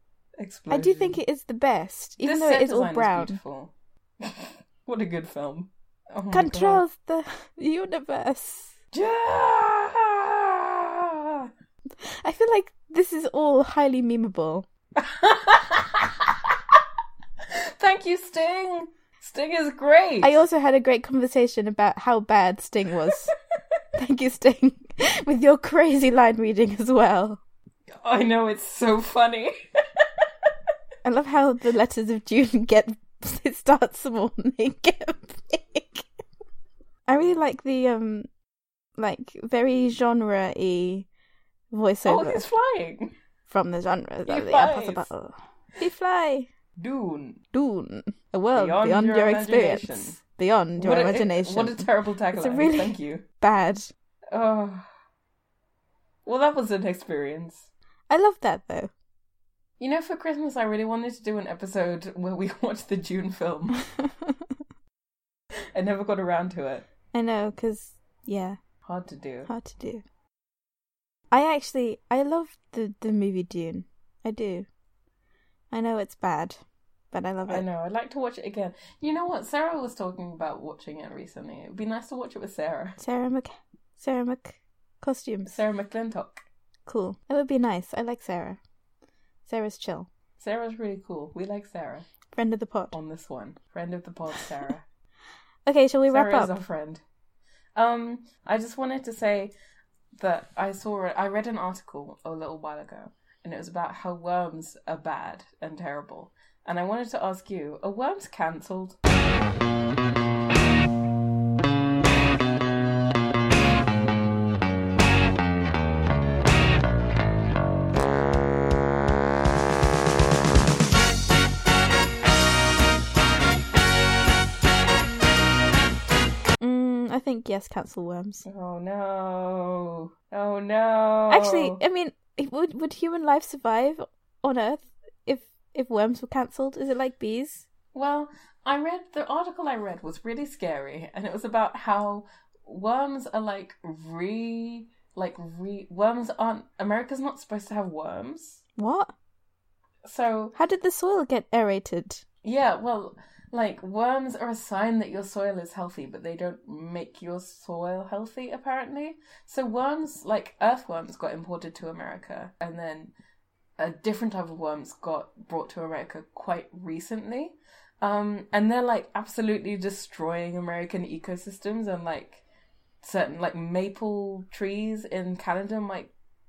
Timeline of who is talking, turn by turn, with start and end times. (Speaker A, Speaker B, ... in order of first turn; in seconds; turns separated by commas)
Speaker A: 0.4-1.2, Speaker B: 0.7-3.4, Speaker A: 2.2-6.8, Speaker B: 6.3-8.7, Speaker A: 8.9-11.5, Speaker B: 12.0-14.7, Speaker A: 14.9-16.5, Speaker A: 17.4-20.4, Speaker B: 20.2-23.3, Speaker B: 23.9-27.4, Speaker A: 28.0-30.1, Speaker B: 31.0-36.0, Speaker B: 37.1-38.3, Speaker B: 39.0-41.1, Speaker B: 41.7-42.4, Speaker A: 42.0-43.1, Speaker B: 43.5-46.5, Speaker A: 44.3-45.1, Speaker A: 46.8-47.4, Speaker B: 47.5-53.9, Speaker A: 48.5-50.2, Speaker A: 50.8-53.2, Speaker A: 54.3-54.9, Speaker A: 56.2-57.7, Speaker B: 58.1-58.9, Speaker A: 59.8-63.8, Speaker B: 63.9-64.3, Speaker A: 65.7-66.8, Speaker B: 67.1-68.6, Speaker A: 68.8-69.5, Speaker B: 69.5-70.0, Speaker B: 71.3-74.7, Speaker B: 75.7-76.6, Speaker B: 77.1-77.6, Speaker A: 77.5-83.0, Speaker B: 83.0-85.5, Speaker A: 85.4-86.4, Speaker B: 86.8-88.6, Speaker B: 89.5-90.1, Speaker A: 90.4-92.0, Speaker B: 92.3-92.9, Speaker A: 92.9-94.8, Speaker B: 95.7-96.5, Speaker A: 96.1-97.0, Speaker A: 97.8-99.5, Speaker A: 100.2-109.0, Speaker B: 126.6-128.4, Speaker A: 128.4-131.8, Speaker B: 131.3-137.7, Speaker A: 137.9-148.6, Speaker B: 148.8-149.1, Speaker A: 150.0-150.6, Speaker B: 150.5-152.2, Speaker A: 152.4-163.1, Speaker A: 163.8-172.4, Speaker A: 173.0-176.1